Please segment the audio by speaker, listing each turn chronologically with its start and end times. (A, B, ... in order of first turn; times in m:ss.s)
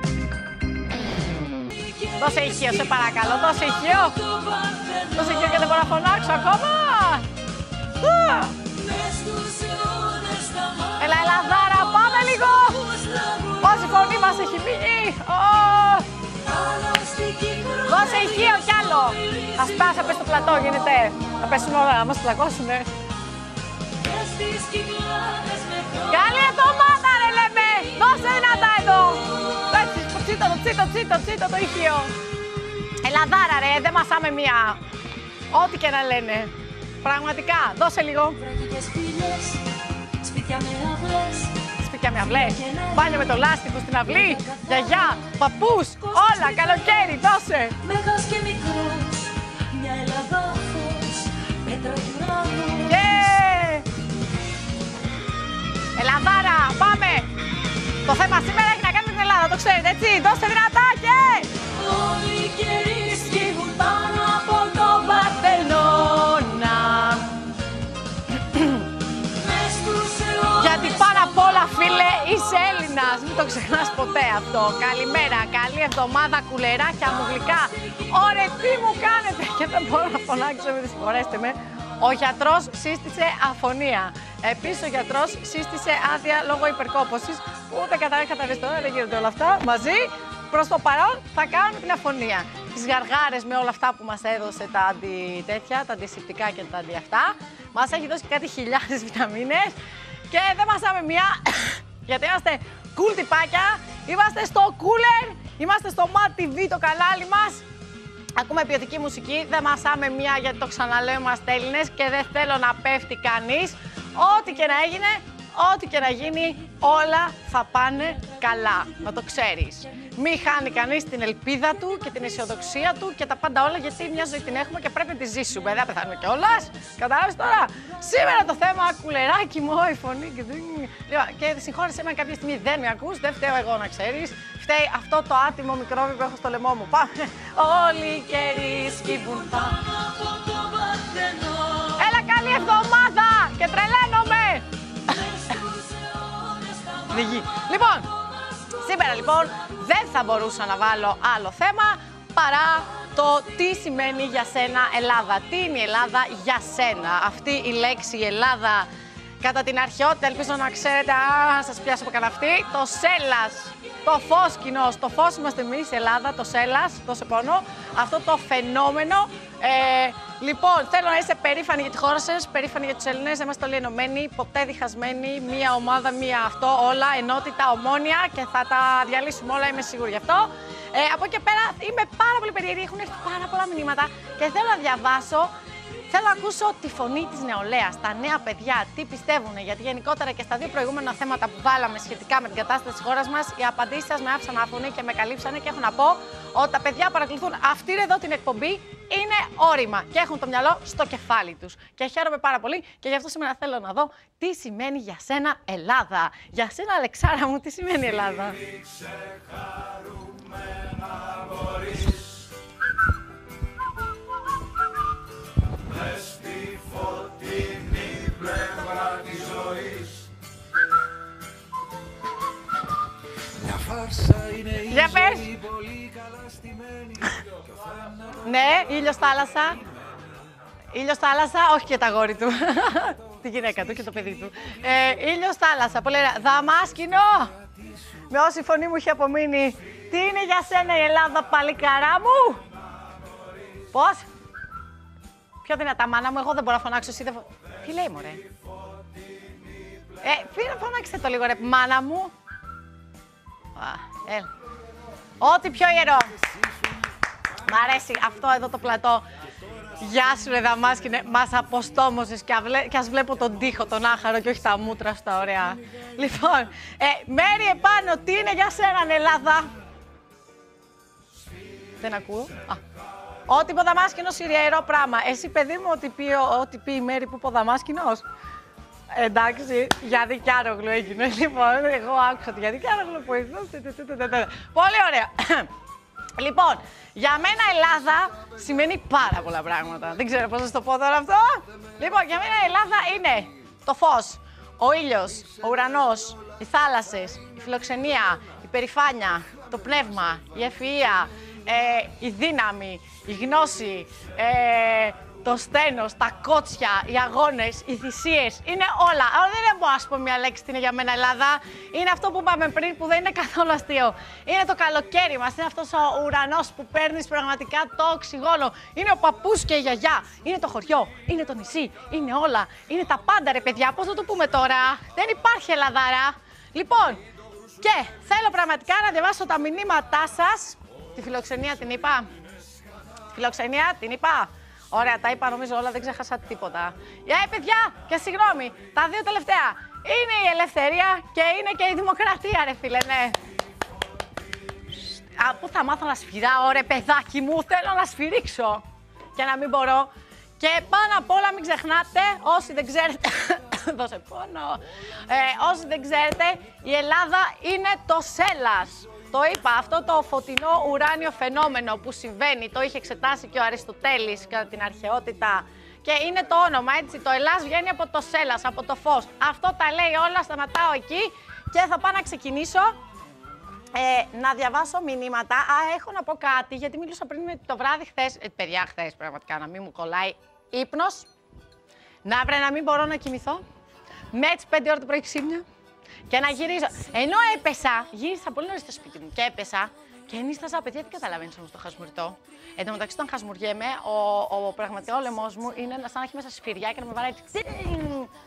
0:01.9-0:02.2 A
0:02.2-0:04.2 B
0:04.2-0:05.1 A
0:05.1-0:07.3 B
0:08.0-0:08.6 B
0:08.8-0:11.1 A
0:11.0-0:12.9 B
0:12.8-0:13.9 A
0:13.6-0:16.1 B
0:16.4-0:20.0 A
0:17.9-0:22.9 B
0:24.0-0:26.6 A
0:26.1-0:32.1 B
0:33.0-0:34.8 B
0:35.5-0:36.5 B
0:37.0-0:38.4 B
0:38.4-0:41.6 A
0:41.8-0:47.8 B
0:42.6-0:43.3 A
0:44.4-0:45.3 A
0:46.0-0:47.1 A
0:47.8-0:53.3 A
0:52.8-0:53.9 B
0:56.0-0:57.3 B
0:58.0-1:01.5 B
1:01.7-1:06.1 A
1:05.3-1:07.5 B
1:08.4-1:08.8 B
1:09.4-1:11.4 A
1:10.6-1:39.8 B
1:40.3-1:47.6 B
1:48.4-2:19.9 B
2:20.0-2:21.9 A
2:22.0-2:25.6 B
2:25.6-2:27.0 A
2:27.1-2:28.1 B
2:28.7-2:38.9 B
2:39.4-3:05.5 B
3:06.1-3:28.6 B
3:38.6-3:39.9 C
3:43.6-3:47.2 C
3:44.9-3:45.5 B
3:48.4-3:49.8 B
3:50.9-3:57.5 B
3:58.3-4:02.6 B
4:03.9-4:04.3 B
4:05.6-4:08.4 B
4:10.2-4:12.3 B
4:13.8-4:14.5 B
4:15.4-4:16.4 B
4:17.7-4:19.3 B
4:20.0-4:29.7 B
4:32.0-4:32.8 B
4:33.5-4:38.2 B
4:39.1-4:45.7 B
4:46.4-5:27.2 B
5:27.8-5:32.3 B
5:33.3-5:43.4 B
5:45.3-5:48.8 B
5:49.4-6:13.0 B
6:13.9-6:21.3 B
6:22.2-6:23.6 B
6:24.3-6:25.6 B
6:26.3-6:38.3 B